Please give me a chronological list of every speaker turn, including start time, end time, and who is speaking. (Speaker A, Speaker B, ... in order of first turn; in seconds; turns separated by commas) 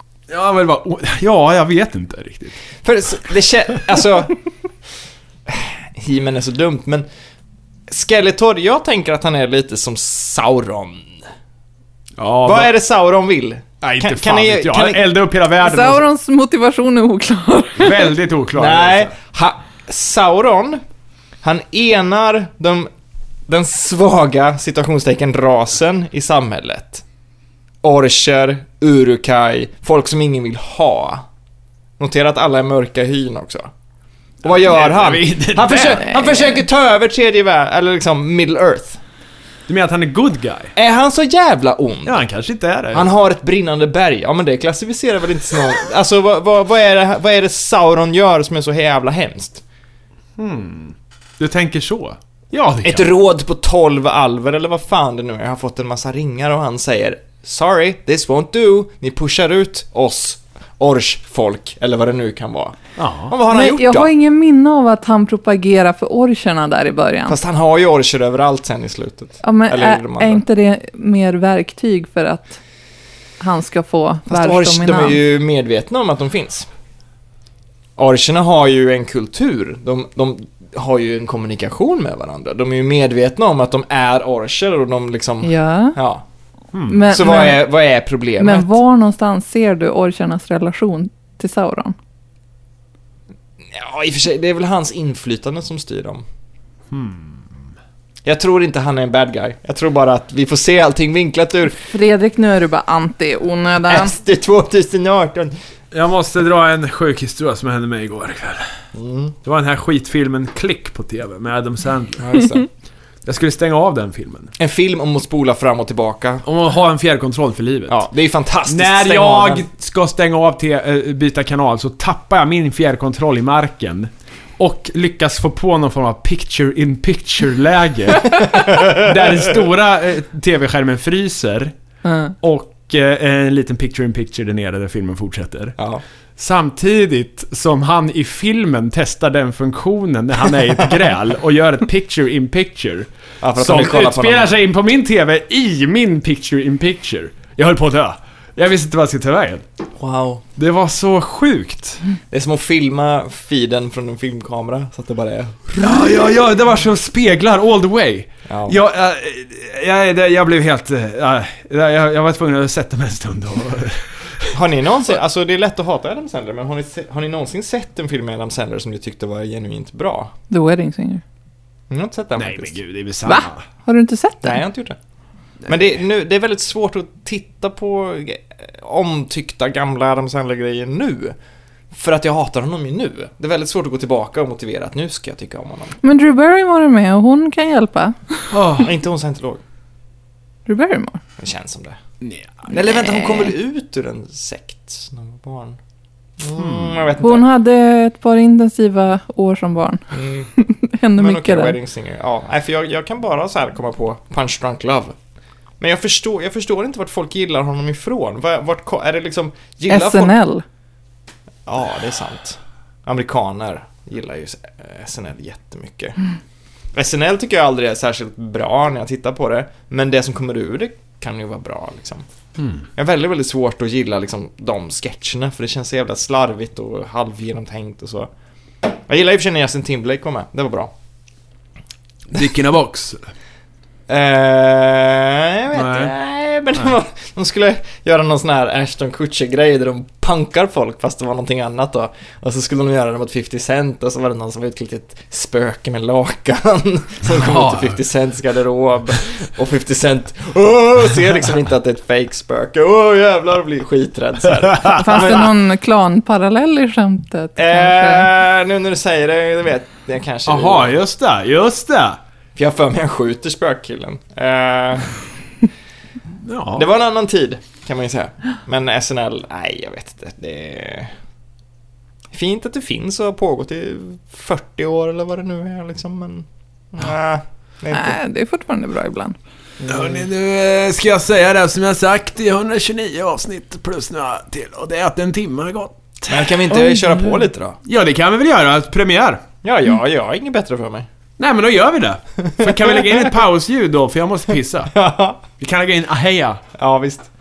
Speaker A: 0.3-2.6, Speaker B: 2.8-4.4, Speaker B: 5.5-7.1, Speaker B: 7.9-11.2, Speaker A: 12.2-12.7, Speaker B: 12.4-15.1, Speaker A: 13.8-16.1, Speaker C: 15.6-18.1, Speaker A: 17.8-19.1, Speaker B: 18.6-20.8, Speaker B: 21.4-22.9, Speaker B: 23.5-27.0, Speaker B: 27.8-31.3, Speaker B: 32.0-33.7, Speaker A: 34.4-36.2, Speaker B: 34.4-39.0, Speaker A: 39.7-40.7, Speaker B: 40.8-42.2, Speaker A: 42.0-43.1, Speaker B: 42.9-49.6, Speaker A: 50.4-53.1, Speaker B: 52.8-64.1, Speaker A: 63.0-63.3, Speaker C: 63.5-67.4, Speaker B: 67.3-70.4, Speaker C: 69.4-72.6, Speaker C: 73.4-75.2, Speaker B: 74.3-76.7, Speaker B: 78.0-86.2, Speaker C: 85.4-86.0, Speaker A: 86.7-87.1, Speaker C: 86.9-87.6, Speaker B: 87.1-88.8, Speaker C: 88.4-92.0, Speaker B: 93.7-96.2, Speaker A: 96.9-97.4, Speaker B: 98.2-101.8, Speaker C: 101.8-104.1, Speaker B: 103.9-105.5, Speaker A: 105.9-108.7, Speaker B: 108.9-109.4, Speaker A: 109.4-112.4, Speaker B: 112.2-112.7, Speaker A: 113.2-114.5, Speaker B: 114.6-116.5, Speaker A: 116.5-118.0, Speaker B: 117.9-119.7, Speaker A: 118.7-131.7, Speaker C: 132.1-132.3, Speaker A: 132.4-135.8, Speaker B: 135.8-136.0, Speaker A: 136.4-149.6, Speaker B: 143.4-144.6, Speaker B: 150.0-150.4, Speaker A: 150.6-152.0, Speaker B: 152.3-155.9, Speaker A: 155.7-164.5, Speaker B: 158.5-158.8, Speaker B: 164.5-170.3, Speaker C: 170.5-171.2, Speaker B: 171.9-172.8, Speaker A: 172.4-173.6, Speaker C: 173.3-174.6, Speaker B: 174.4-175.0, Speaker B: 175.7-181.4, Speaker B: 181.9-186.0, Speaker C: 186.0-188.5, Speaker A: 188.5-188.9, Speaker B: 188.8-189.6, Speaker C: 190.7-191.2, Speaker B: 191.4-192.0, Speaker A: 192.2-192.7, Speaker B: 192.7-195.8, Speaker C: 192.9-193.5, Speaker B: 196.4-197.5, Speaker A: 196.6-197.0, Speaker C: 197.2-200.1, Speaker B: 200.1-200.5, Speaker C: 200.6-201.8, Speaker B: 201.2-205.2, Speaker B: 205.8-210.4, Speaker C: 209.9-210.6, Speaker B: 211.7-216.2, Speaker B: 216.9-222.3, Speaker B: 223.0-228.3, Speaker B: 228.8-230.9, Speaker A: 232.3-233.2, Speaker B: 234.1-255.5, Speaker A: 235.7-236.1, Speaker A: 247.3-248.0, Speaker C: 254.9-258.3, Speaker B: 257.6-261.0, Speaker A: 260.5-262.2, Speaker B: 262.6-265.1, Speaker A: 266.4-266.8, Speaker B: 266.7-271.1, Speaker B: 272.3-278.2, Speaker C: 277.9-279.4, Speaker B: 279.8-280.2, Speaker A: 279.9-286.8, Speaker B: 286.3-287.8, Speaker A: 287.9-289.4, Speaker B: 289.6-291.1, Speaker A: 291.4-294.9, Speaker B: 292.5-293.3, Speaker B: 294.9-295.4, Speaker A: 295.6-296.6, Speaker B: 296.8-297.3